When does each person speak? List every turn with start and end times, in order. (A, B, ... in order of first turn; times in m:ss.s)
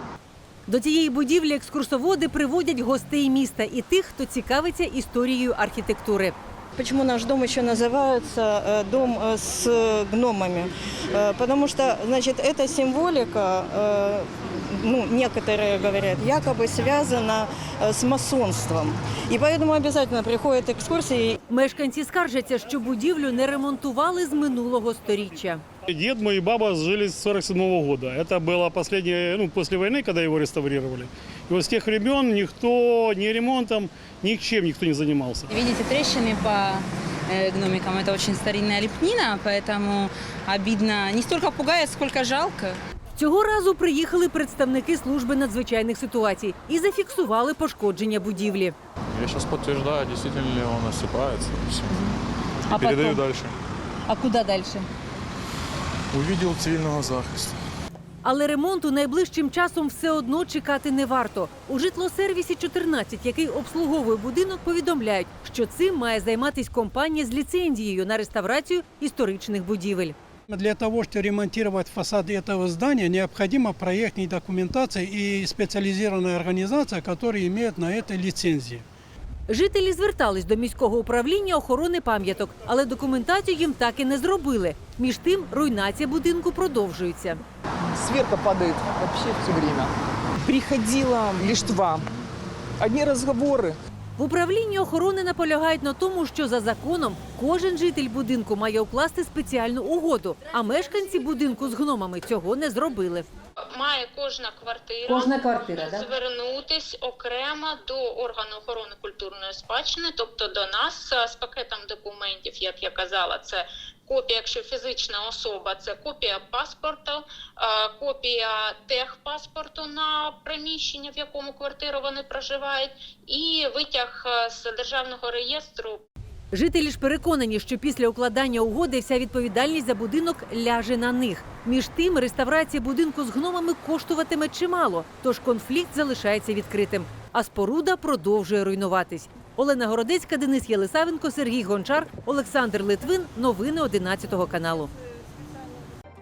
0:00.7-0:06.3 A
0:06.8-0:21.4 B
0:21.5-0:25.6 A
0:25.8-0:35.5 C
0:35.5-0:42.8 D
0:43.2-0:48.7 A
0:49.1-0:52.0 E
0:52.7-0:53.6 E
0:52.8-0:53.1 A
0:54.1-0:54.8 A
0:56.1-0:57.6 E
0:58.2-1:10.2 A
1:10.5-1:18.8 F
1:19.5-1:27.4 A
1:27.9-1:32.1 G
1:32.8-1:33.8 G
1:34.2-1:43.3 A
1:43.8-2:06.0 H
1:45.1-1:46.0 A
2:06.5-2:24.9 A